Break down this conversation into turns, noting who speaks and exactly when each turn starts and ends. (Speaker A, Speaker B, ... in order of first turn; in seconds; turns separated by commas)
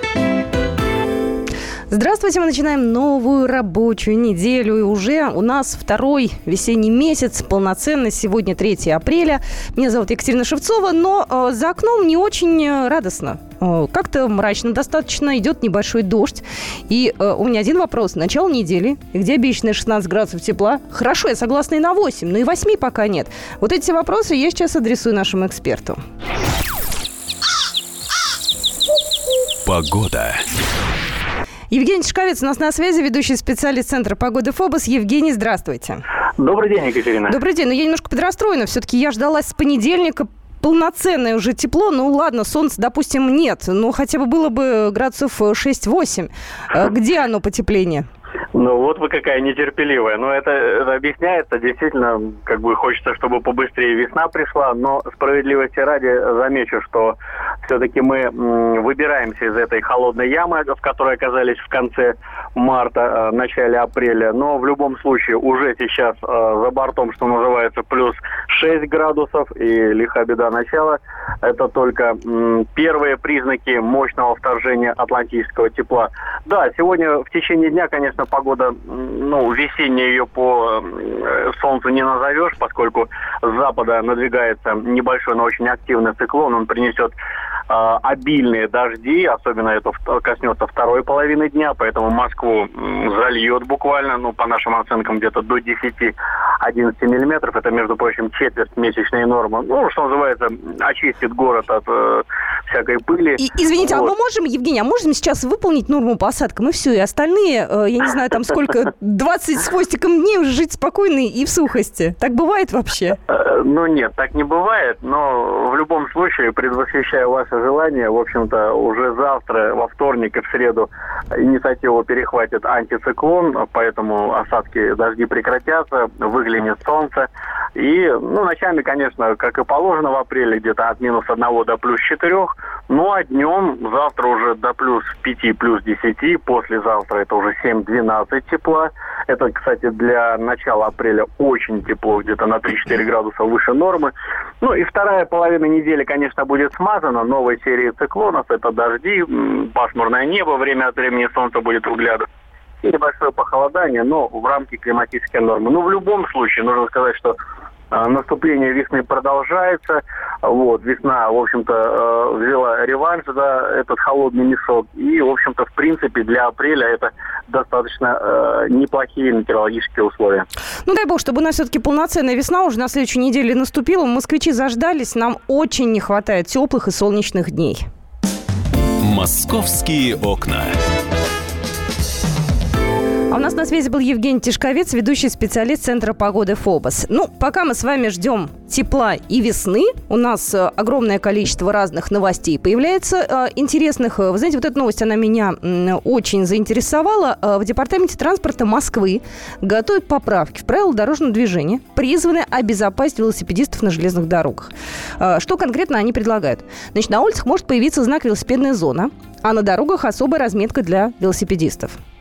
Speaker A: 1.9-26.0, Speaker B: 29.6-30.4, Speaker A: 31.7-36.0, Speaker C: 36.4-37.3, Speaker A: 37.3-48.1, Speaker C: 48.5-87.1, Speaker C: 87.7-104.1, Speaker A: 103.4-113.2, Speaker C: 113.3-152.2, Speaker C: 152.8-157.3, Speaker C: 157.9-170.4, Speaker A: 170.8-177.8, Speaker B: 179.0-180.8, Speaker A: 183.3-212.0